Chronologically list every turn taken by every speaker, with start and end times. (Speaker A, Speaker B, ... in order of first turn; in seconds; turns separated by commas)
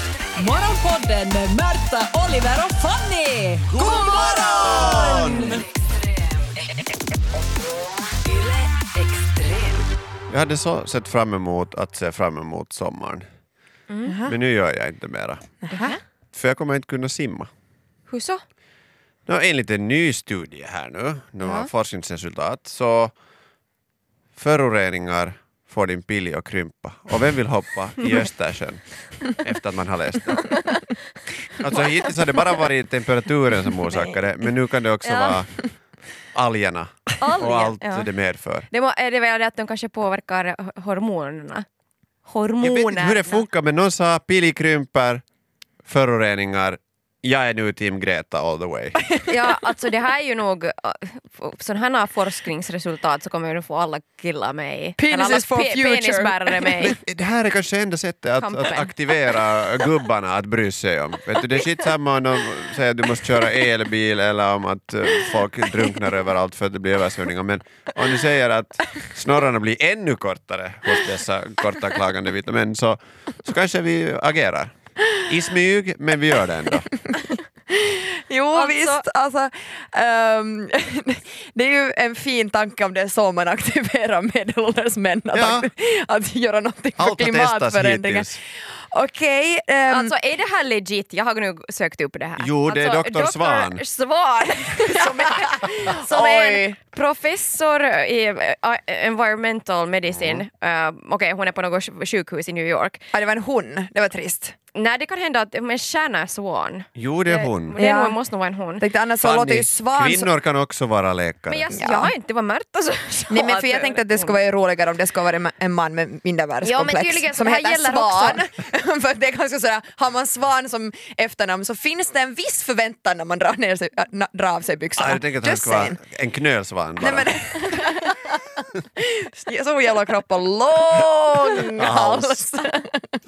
Speaker A: 0.3-5.6, Speaker B: 3.7-5.6, Speaker A: 8.6-9.8, Speaker B: 10.3-13.2, Speaker C: 13.9-14.2, Speaker D: 14.1-14.3, Speaker B: 14.2-15.5, Speaker D: 15.6-16.0, Speaker C: 15.7-16.0, Speaker B: 16.3-17.5, Speaker C: 18.1-18.4, Speaker B: 19.3-23.1, Speaker C: 21.4-21.7, Speaker B: 24.4-30.6, Speaker C: 30.5-30.8, Speaker B: 31.6-35.5, Speaker C: 35.0-35.4, Speaker B: 36.3-38.7, Speaker C: 37.2-38.1, Speaker C: 38.7-41.6, Speaker C: 42.2-43.4, Speaker B: 42.6-45.2, Speaker B: 45.8-49.0, Speaker C: 49.3-57.0, Speaker D: 55.0-56.9, Speaker B: 56.8-74.7, Speaker C: 58.4-58.9, Speaker B: 75.2-76.9, Speaker D: 77.7-88.3, Speaker C: 78.5-79.0, Speaker B: 85.3-85.7, Speaker B: 87.0-88.4, Speaker D: 88.9-90.1, Speaker C: 89.9-103.0, Speaker B: 92.4-93.8, Speaker D: 94.8-96.8, Speaker B: 100.1-100.4, Speaker D: 103.1-104.5, Speaker C: 104.7-108.8, Speaker B: 107.0-107.8, Speaker D: 107.8-108.2, Speaker D: 108.8-110.3, Speaker B: 109.2-111.7, Speaker C: 111.5-114.4, Speaker D: 111.7-112.1, Speaker D: 113.3-126.0, Speaker C: 116.6-118.4, Speaker B: 125.0-127.6, Speaker D: 127.0-133.1, Speaker B: 131.8-132.4